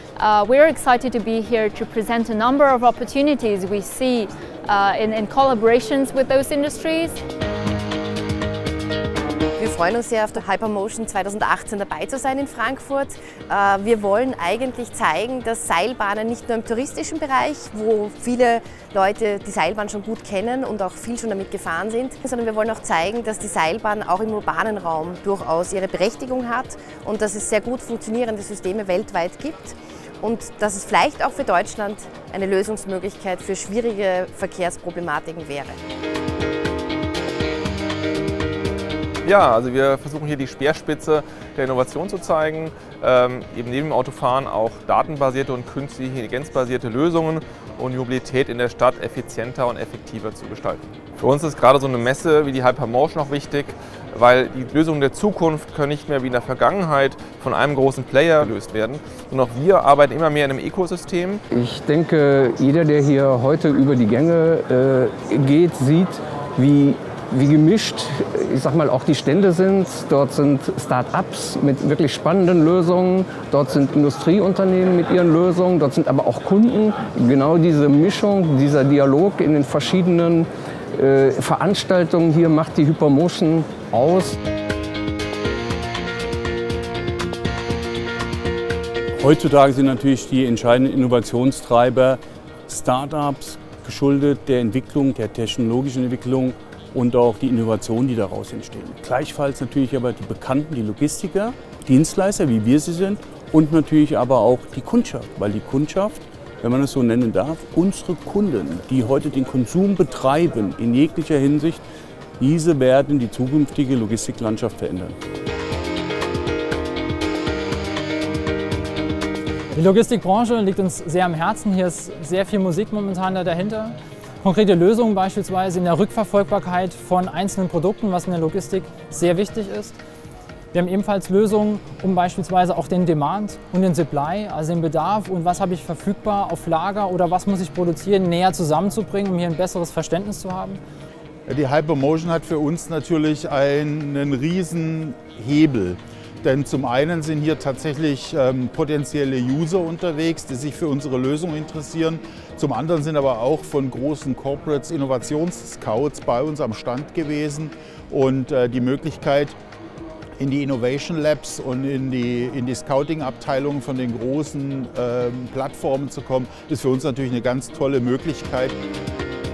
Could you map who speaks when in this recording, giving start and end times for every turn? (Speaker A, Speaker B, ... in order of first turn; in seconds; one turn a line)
Speaker A: 0.2-7.2
Speaker B: 9.6-35.8
Speaker C: 39.2-61.4
Speaker D: 61.5-84.4
Speaker E: 89.2-111.8
Speaker E: 112.4-115.2
Speaker F: 119.7-130.0
Speaker F: 130.7-140.8
Speaker G: 141.5-159.6
Speaker G: 160.4-168.8